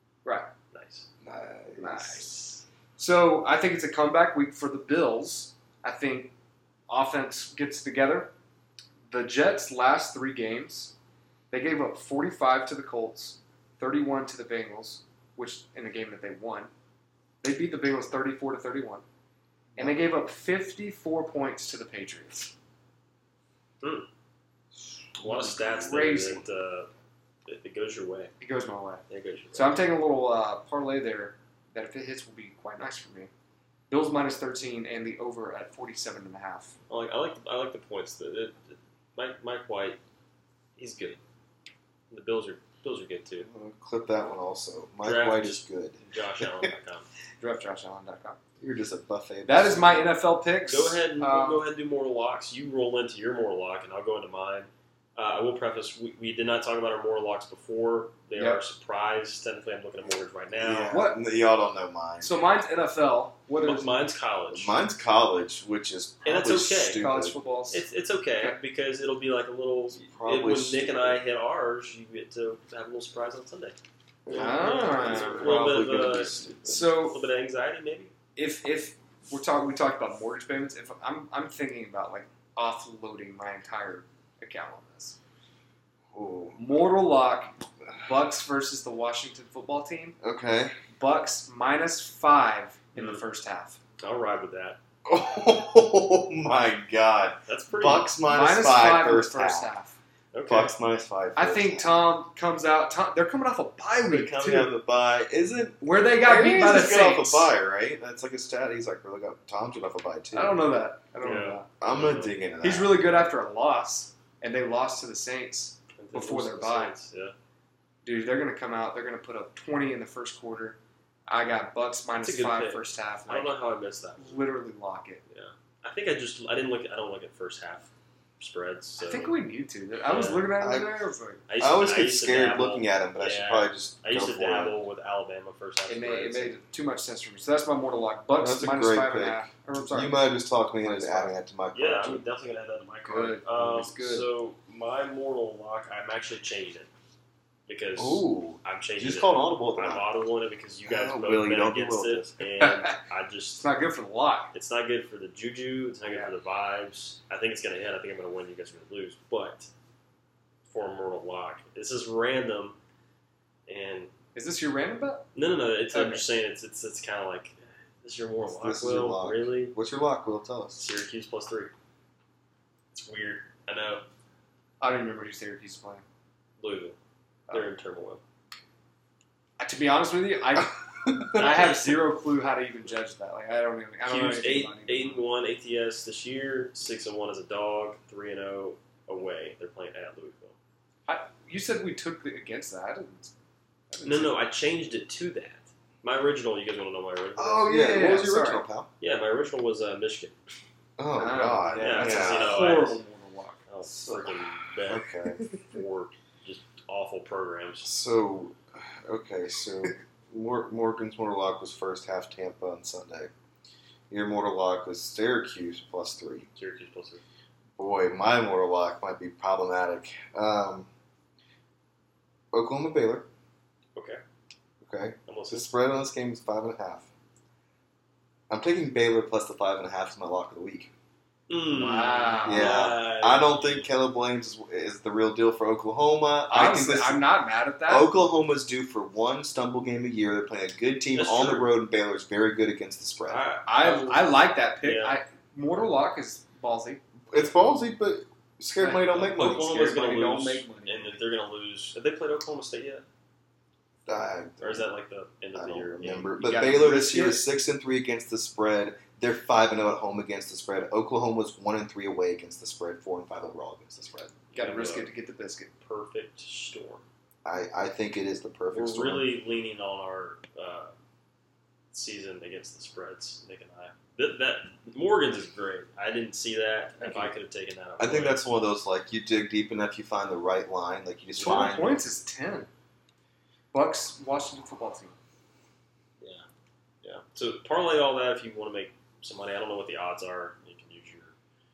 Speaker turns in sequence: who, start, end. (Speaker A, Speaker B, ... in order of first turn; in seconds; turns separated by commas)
Speaker A: 0.2-0.5, Speaker B: 0.7-1.1, Speaker C: 1.2-2.3, Speaker A: 1.8-2.3, Speaker A: 3.0-6.3, Speaker A: 6.9-8.3, Speaker A: 9.1-10.9, Speaker A: 11.5-16.7, Speaker A: 17.4-19.0, Speaker C: 19.7-20.1, Speaker A: 19.8-22.5, Speaker B: 23.8-24.1, Speaker B: 25.2-26.9, Speaker A: 25.3-26.4, Speaker B: 27.4-28.3, Speaker A: 28.4-33.3, Speaker B: 29.1-29.8, Speaker A: 33.9-36.7, Speaker B: 36.9-40.0, Speaker B: 40.8-41.2, Speaker B: 42.1-43.5, Speaker C: 43.5-46.7, Speaker B: 45.0-47.1, Speaker A: 47.4-48.4, Speaker C: 48.6-50.2, Speaker A: 49.4-51.6, Speaker B: 50.7-61.0, Speaker C: 60.6-62.3, Speaker A: 60.9-61.2, Speaker A: 62.2-63.9, Speaker B: 63.6-64.7, Speaker C: 64.5-67.4, Speaker B: 66.2-67.0, Speaker A: 66.9-67.8, Speaker B: 67.7-73.8, Speaker C: 69.9-71.2, Speaker C: 74.2-76.9, Speaker B: 74.3-78.1, Speaker A: 74.3-76.1, Speaker A: 76.6-77.2, Speaker A: 78.3-85.2, Speaker C: 86.1-86.6, Speaker A: 86.6-90.2, Speaker C: 90.2-90.7, Speaker A: 91.0-93.8, Speaker B: 93.0-93.2, Speaker B: 94.0-94.8, Speaker C: 95.0-99.7, Speaker B: 97.5-98.1, Speaker A: 98.3-100.0, Speaker B: 100.3-100.7, Speaker C: 100.5-102.0, Speaker A: 101.3-104.7, Speaker C: 104.0-110.7, Speaker A: 105.8-107.5, Speaker A: 110.3-111.7, Speaker B: 111.2-112.3, Speaker C: 111.8-113.1, Speaker A: 112.6-116.9, Speaker B: 116.0-117.3, Speaker A: 118.0-123.5, Speaker B: 122.2-124.5, Speaker A: 124.2-125.2, Speaker B: 125.3-129.3, Speaker A: 129.0-131.4, Speaker B: 130.0-130.5, Speaker C: 130.6-131.0, Speaker B: 131.5-136.5, Speaker C: 131.6-134.8, Speaker A: 135.9-140.2, Speaker C: 138.4-142.2, Speaker A: 140.8-141.3, Speaker B: 141.7-146.9, Speaker A: 143.0-144.3, Speaker B: 147.7-153.6, Speaker C: 147.9-150.1, Speaker C: 150.8-152.4, Speaker A: 152.6-152.9, Speaker A: 153.6-154.5, Speaker B: 154.5-159.7, Speaker A: 156.1-156.3, Speaker B: 160.7-162.8, Speaker B: 163.7-164.1, Speaker A: 164.3-165.3, Speaker B: 165.3-169.8, Speaker A: 165.9-166.2, Speaker C: 168.4-170.8, Speaker B: 170.8-171.7, Speaker B: 172.9-174.1, Speaker A: 174.8-176.0, Speaker B: 176.6-177.0, Speaker B: 177.5-178.2, Speaker A: 179.6-185.3, Speaker C: 181.1-181.4, Speaker B: 181.3-182.1, Speaker B: 184.0-190.6, Speaker A: 191.1-193.3, Speaker A: 193.9-194.4, Speaker B: 194.0-197.9, Speaker A: 197.4-198.6, Speaker C: 197.6-198.9, Speaker B: 199.0-200.4, Speaker C: 201.0-202.8, Speaker A: 201.2-203.6, Speaker B: 201.8-203.0, Speaker B: 203.7-207.9, Speaker C: 203.8-205.6, Speaker C: 207.8-213.3, Speaker C: 214.1-216.5, Speaker B: 216.5-217.2, Speaker C: 217.8-220.9, Speaker C: 222.5-223.3, Speaker B: 223.9-224.2, Speaker C: 224.8-227.1, Speaker B: 225.3-225.7, Speaker C: 228.5-230.9, Speaker B: 231.5-233.9, Speaker A: 231.7-232.8, Speaker C: 232.4-237.2, Speaker A: 236.5-238.1, Speaker C: 237.9-243.4, Speaker B: 241.2-241.7, Speaker B: 243.3-245.2, Speaker A: 243.7-247.0, Speaker C: 247.3-249.7, Speaker A: 248.8-251.2, Speaker B: 249.1-253.0, Speaker C: 254.1-254.8, Speaker B: 254.6-256.3, Speaker C: 255.5-264.4, Speaker A: 256.4-257.5, Speaker B: 264.5-265.1, Speaker A: 264.5-265.7, Speaker B: 265.8-267.0, Speaker C: 267.4-269.3, Speaker B: 268.7-270.9, Speaker B: 271.9-278.4, Speaker A: 277.0-277.3, Speaker C: 278.0-282.0, Speaker A: 281.4-282.7, Speaker A: 283.7-285.1, Speaker B: 286.2-286.4, Speaker B: 287.0-291.3